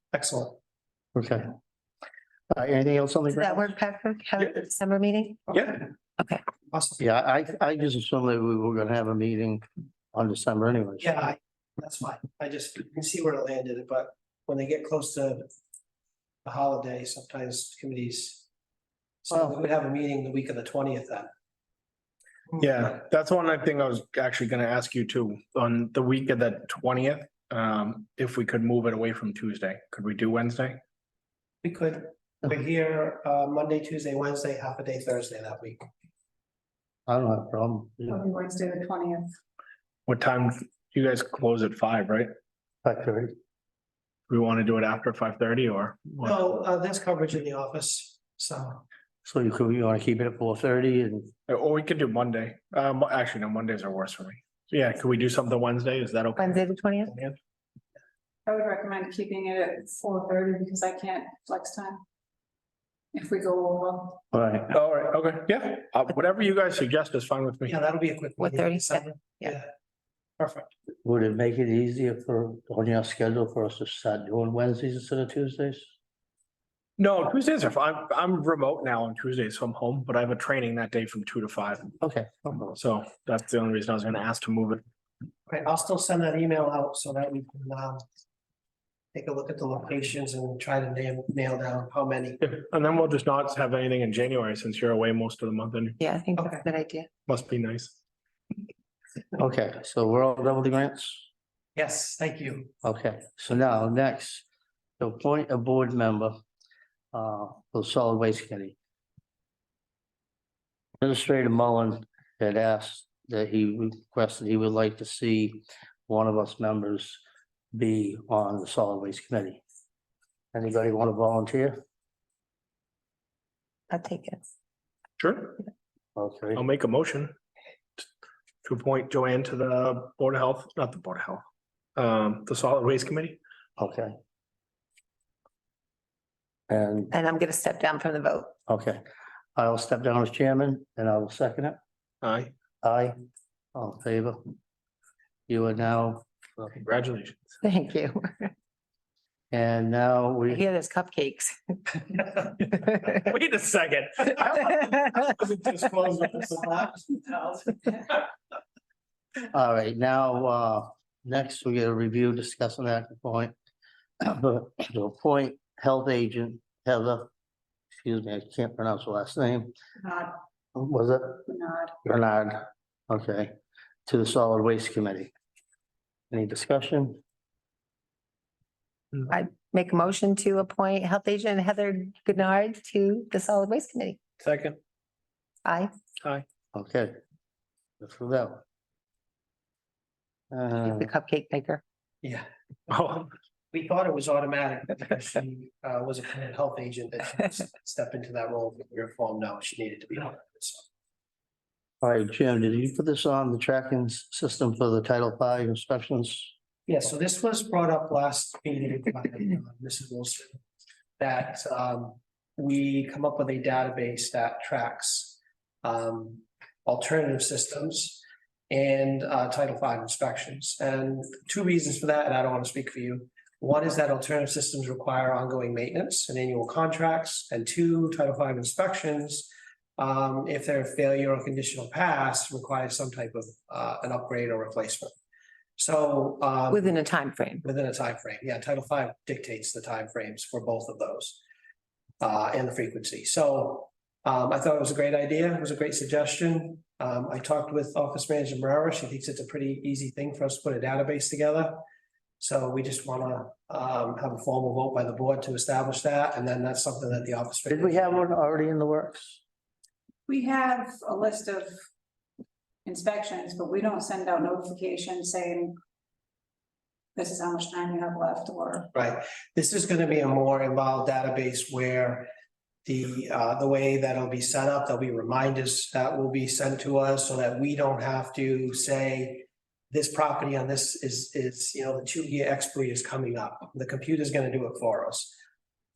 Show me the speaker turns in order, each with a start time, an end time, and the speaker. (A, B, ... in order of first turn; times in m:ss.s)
0:00.1-0:00.6 A
0:01.2-0:01.5 B
0:02.5-0:03.7 B
0:03.3-0:05.5 C
0:05.5-0:05.8 D
0:06.7-0:07.0 A
0:07.0-0:11.2 B
0:11.0-0:15.5 A
0:16.4-0:18.4 A
0:19.2-0:21.3 A
0:22.6-0:30.8 D
0:31.6-0:35.8 A
0:37.1-0:38.2 B
0:38.1-0:39.3 E
0:40.1-0:42.3 D
0:42.8-0:43.3 B
0:44.3-0:46.4 D
0:46.2-0:48.8 A
0:49.2-0:51.3 B
0:51.5-0:57.4 D
0:56.4-0:57.1 C
0:58.4-1:02.0 E
1:03.1-1:04.2 E
1:04.3-1:04.7 B
1:04.7-1:07.8 D
1:07.7-1:09.7 A
1:08.4-1:09.6 C
1:10.4-1:10.7 A
1:11.0-1:15.9 B
1:17.0-1:21.9 D
1:22.0-1:22.8 B
1:22.8-1:24.8 D
1:25.5-1:28.0 A
1:29.1-1:32.4 A
1:32.4-1:36.0 D
1:36.0-1:37.1 C
1:36.4-1:36.6 A
1:37.3-1:37.9 D
1:39.4-1:41.3 B
1:41.8-1:42.7 A
1:42.8-1:44.4 B
1:45.0-1:46.4 B
1:47.1-1:48.8 B
1:51.0-1:57.2 B
1:57.7-1:59.6 B
2:00.5-2:01.8 B
2:03.9-2:04.4 C
2:05.2-2:05.6 D
2:06.2-2:06.6 B
2:06.6-2:07.3 D
2:08.6-2:11.4 D
2:12.0-2:13.4 D
2:13.8-2:14.1 B
2:16.7-2:17.1 B
2:17.1-2:18.5 C
2:18.7-2:19.0 B
2:19.6-2:21.8 B
2:22.2-2:22.5 D
2:22.8-2:23.1 B
2:23.7-2:24.4 B
2:25.5-2:26.7 B
2:26.8-2:27.5 D
2:27.6-2:28.5 C
2:29.5-2:30.6 B
2:30.5-2:32.0 C
2:32.8-2:33.2 C
2:33.1-2:36.6 D
2:36.5-2:38.2 A
2:39.5-2:43.5 B
2:44.2-2:47.3 B
2:48.0-2:49.7 B
2:50.0-2:50.3 E
2:50.7-2:51.5 B
2:51.5-2:51.9 E
2:52.0-2:53.5 B
2:54.1-2:55.3 B
2:56.3-2:57.2 B
2:59.3-3:04.2 C
3:04.4-3:04.8 D
3:05.6-3:05.9 C
3:06.7-3:07.1 B
3:08.0-3:08.6 B
3:10.5-3:11.1 B
3:10.8-3:11.8 C
3:12.9-3:13.3 D
3:13.7-3:20.8 A
3:22.0-3:26.5 B
3:26.9-3:30.6 A
3:31.2-3:55.1 A
3:55.8-3:56.9 A
3:56.7-3:57.6 C
3:57.6-4:01.4 A
4:02.2-4:11.8 A
4:12.4-4:18.2 A
4:17.7-4:19.4 B
4:20.3-4:21.7 E
4:22.8-4:25.8 E
4:27.2-4:28.9 E
4:28.9-4:32.3 A
4:32.8-4:45.4 A